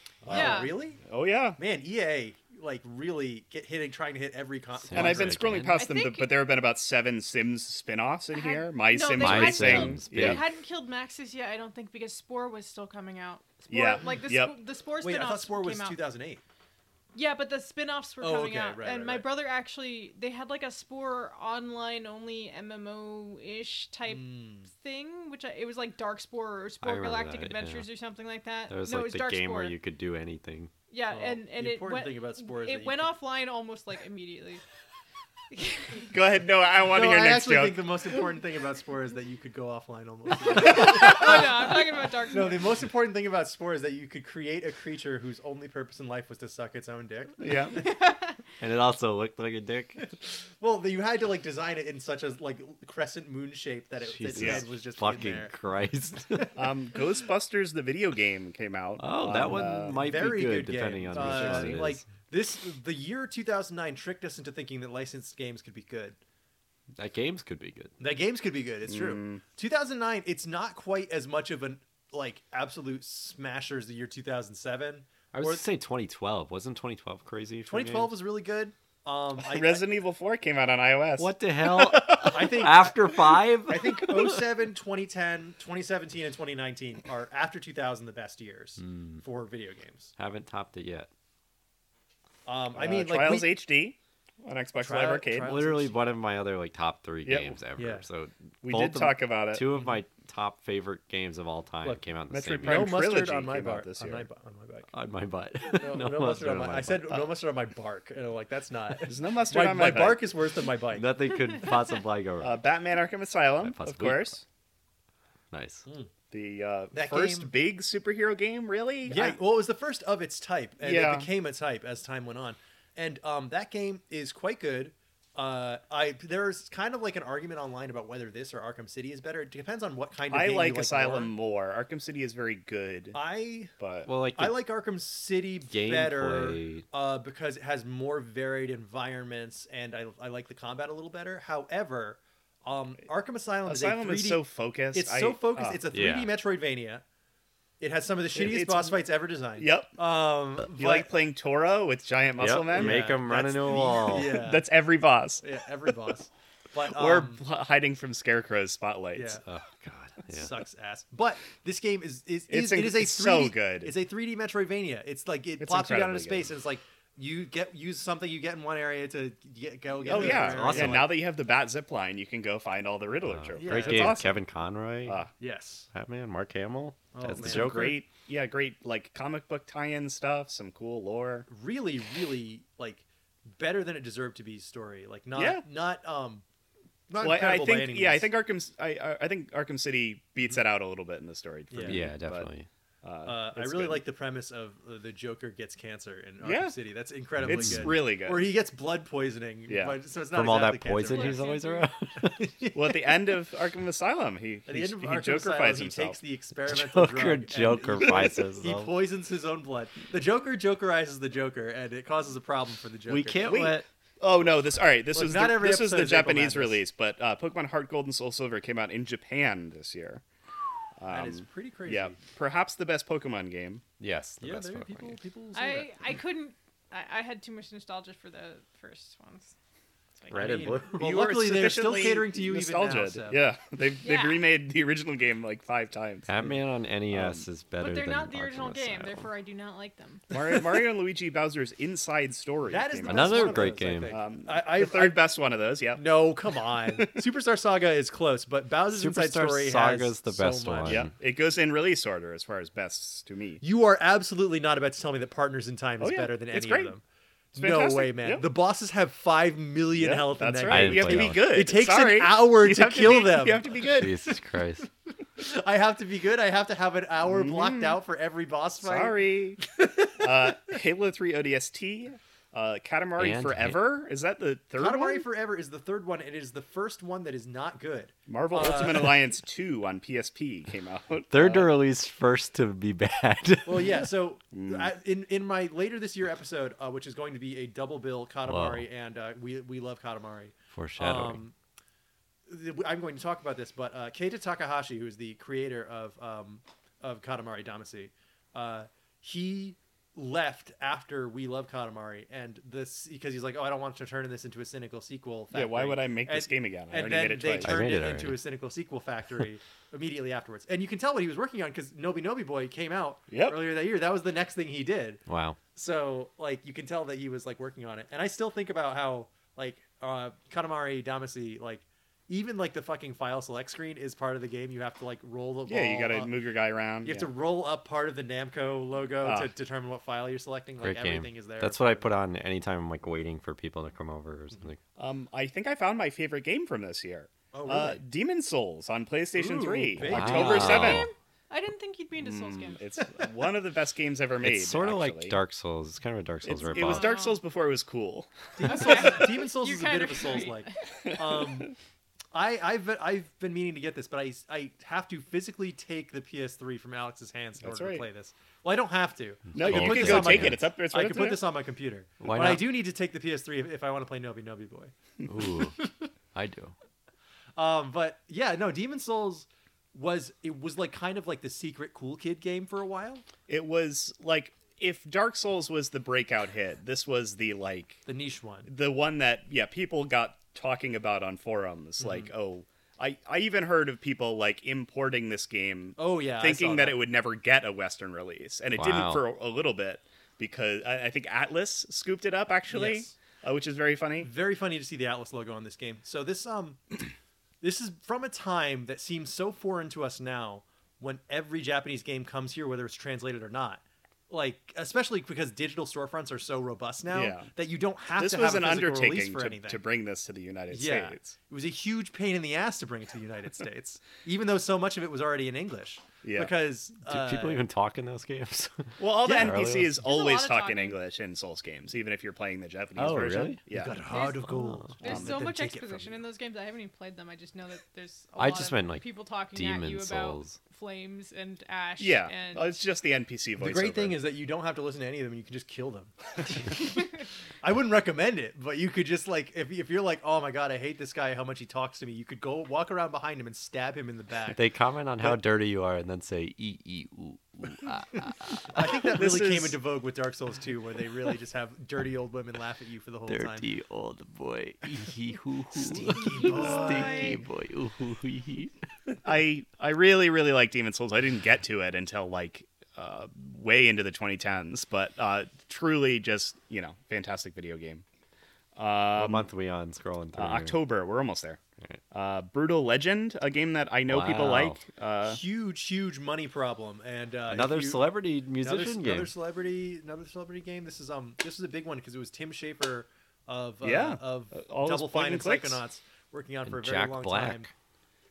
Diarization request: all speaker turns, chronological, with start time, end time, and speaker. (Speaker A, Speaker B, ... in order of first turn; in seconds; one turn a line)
Speaker A: 0.2-1.0
Speaker B: 0.2-1.6
Speaker C: 0.3-0.7
Speaker A: 1.6-5.6
Speaker D: 4.8-5.8
Speaker B: 4.9-10.4
Speaker C: 5.8-6.3
Speaker C: 8.3-16.0
Speaker D: 9.2-10.4
Speaker B: 13.7-14.6
Speaker A: 15.0-16.4
Speaker C: 17.1-29.8
Speaker A: 18.2-19.3
Speaker A: 24.1-24.7
Speaker D: 26.8-27.9
Speaker D: 28.7-30.7
Speaker C: 30.9-34.6
Speaker A: 31.1-33.1
Speaker C: 35.6-36.0
Speaker B: 36.1-38.2
Speaker A: 36.9-47.9
Speaker C: 40.5-42.7
Speaker B: 47.4-47.8
Speaker D: 48.6-50.0
Speaker A: 50.6-55.5
Speaker D: 54.0-56.5
Speaker B: 54.4-54.6
Speaker B: 56.6-60.0
Speaker D: 59.0-62.1
Speaker A: 59.9-66.2
Speaker B: 61.1-61.9
Speaker D: 67.0-67.9
Speaker A: 68.0-75.6
Speaker B: 68.9-69.4
Speaker D: 75.3-78.2
Speaker A: 77.7-79.9
Speaker B: 79.4-82.6
Speaker D: 81.2-84.4
Speaker A: 82.1-90.1
Speaker D: 88.8-89.2
Speaker D: 90.2-91.1
Speaker A: 92.5-93.6
Speaker B: 92.7-95.6
Speaker A: 94.8-95.9
Speaker D: 95.4-103.1
Speaker B: 97.2-97.6
Speaker A: 97.8-98.0
Speaker B: 98.6-99.7
Speaker A: 99.7-100.0
Speaker B: 102.3-104.3
Speaker A: 102.6-104.9
Speaker D: 104.9-107.3
Speaker A: 105.7-111.2
Speaker B: 109.1-110.3
Speaker D: 110.9-112.6
Speaker B: 112.4-114.4
Speaker D: 113.6-114.4
Speaker D: 115.5-115.9
Speaker B: 116.3-119.4
Speaker A: 116.9-117.5
Speaker A: 119.1-131.3
Speaker B: 120.8-121.3
Speaker B: 130.3-133.2
Speaker A: 133.1-133.7
Speaker B: 133.8-134.1
Speaker D: 134.1-134.6
Speaker A: 134.3-147.0
Speaker D: 135.7-136.8
Speaker B: 143.6-145.8
Speaker D: 145.9-146.3
Speaker A: 147.8-151.1
Speaker B: 148.3-149.0
Speaker B: 149.6-149.9
Speaker B: 150.7-153.1
Speaker D: 152.4-154.5
Speaker A: 152.7-154.7
Speaker B: 154.1-155.4
Speaker A: 155.4-157.4
Speaker B: 156.9-159.4
Speaker A: 159.1-159.4
Speaker D: 159.4-160.5
Speaker A: 160.3-171.1
Speaker B: 162.5-163.9
Speaker B: 165.6-166.5
Speaker B: 170.0-174.3
Speaker D: 170.1-171.1
Speaker D: 173.2-175.2
Speaker A: 173.6-174.3
Speaker A: 175.4-175.9
Speaker D: 175.9-178.0
Speaker A: 177.1-177.9
Speaker B: 177.4-181.5
Speaker A: 181.5-186.4
Speaker B: 185.3-185.6
Speaker A: 187.1-188.3
Speaker B: 187.2-192.5
Speaker A: 191.7-192.0
Speaker D: 191.8-192.7
Speaker B: 193.0-194.0
Speaker A: 193.2-201.6
Speaker B: 196.4-196.8
Speaker B: 197.4-198.5
Speaker D: 197.4-197.9
Speaker B: 199.7-200.0
Speaker D: 200.3-202.5
Speaker C: 201.0-201.9
Speaker A: 202.2-203.1
Speaker B: 202.7-206.2
Speaker A: 204.7-213.7
Speaker D: 206.7-208.9
Speaker D: 213.1-213.9
Speaker B: 213.4-220.2
Speaker A: 215.1-216.8
Speaker B: 221.0-223.8
Speaker A: 221.1-222.2
Speaker D: 224.0-225.2
Speaker A: 224.4-226.0
Speaker C: 225.5-229.6
Speaker C: 230.2-230.5
Speaker D: 230.3-231.2
Speaker A: 230.3-233.4
Speaker B: 231.0-236.3
Speaker C: 234.0-234.4
Speaker D: 236.3-239.3
Speaker B: 237.1-237.4
Speaker C: 237.8-240.2
Speaker B: 240.3-246.3
Speaker A: 242.7-245.2
Speaker D: 243.1-244.1
Speaker A: 245.9-251.1
Speaker B: 246.8-247.2
Speaker D: 248.9-251.1
Speaker B: 250.8-253.6
Speaker A: 253.6-257.0
Speaker B: 256.0-256.9
Speaker B: 257.6-258.4
Speaker A: 257.6-264.1
Speaker B: 259.9-264.1
Speaker D: 260.7-261.5
Speaker D: 263.9-264.9
Speaker A: 265.4-270.6
Speaker B: 267.2-268.0
Speaker B: 268.8-269.6
Speaker B: 270.2-275.2
Speaker D: 273.2-273.8
Speaker A: 274.8-279.2
Speaker B: 278.3-281.7
Speaker D: 281.3-284.1
Speaker A: 283.6-291.6
Speaker B: 284.5-284.9
Speaker D: 288.4-288.9
Speaker D: 290.7-291.4
Speaker A: 292.5-315.2
Speaker B: 305.5-307.9
Speaker D: 307.6-308.4
Speaker B: 313.3-313.6
Speaker D: 315.3-315.6
Speaker A: 315.7-326.3
Speaker B: 325.7-327.3
Speaker A: 327.0-332.1
Speaker B: 329.2-329.5
Speaker D: 330.8-334.8
Speaker B: 335.0-341.1
Speaker A: 337.5-338.0
Speaker A: 339.4-341.1
Speaker D: 340.0-341.1
Speaker C: 340.8-342.8
Speaker B: 342.2-345.4
Speaker D: 344.4-347.1
Speaker B: 346.4-348.3
Speaker C: 346.7-347.4
Speaker A: 348.6-351.7
Speaker C: 348.6-350.7
Speaker B: 351.1-351.6
Speaker A: 352.3-364.9
Speaker B: 357.6-358.1
Speaker D: 359.5-360.7
Speaker B: 359.6-361.4
Speaker D: 362.2-362.8
Speaker D: 365.3-365.8
Speaker A: 365.8-366.1
Speaker D: 366.3-366.7
Speaker A: 367.6-373.2
Speaker B: 373.5-378.0
Speaker A: 378.1-378.7
Speaker B: 378.7-394.3
Speaker A: 382.0-382.3
Speaker A: 386.0-387.0
Speaker D: 388.7-389.2
Speaker A: 392.7-393.1
Speaker A: 394.2-397.1
Speaker A: 397.6-409.8
Speaker B: 407.1-407.5
Speaker B: 408.1-411.4
Speaker A: 410.7-417.6
Speaker B: 416.2-416.5
Speaker D: 417.1-420.0
Speaker B: 419.0-424.0
Speaker A: 419.2-419.7
Speaker C: 420.0-421.0
Speaker D: 422.9-423.6
Speaker A: 423.7-426.2
Speaker C: 424.1-432.7
Speaker D: 424.4-424.9
Speaker B: 425.0-425.4
Speaker D: 428.4-430.6
Speaker B: 432.0-434.2
Speaker A: 433.6-437.0
Speaker A: 437.6-444.6
Speaker D: 444.5-449.3
Speaker A: 448.7-453.6
Speaker B: 449.1-449.8
Speaker D: 453.3-458.7
Speaker A: 455.8-457.4
Speaker C: 456.3-457.4
Speaker B: 459.2-468.0
Speaker B: 468.8-469.5
Speaker D: 469.1-470.8
Speaker B: 470.4-471.6
Speaker B: 472.1-475.4
Speaker D: 474.1-474.8
Speaker A: 475.2-487.7
Speaker D: 477.5-479.3
Speaker B: 483.8-485.8
Speaker D: 486.6-487.7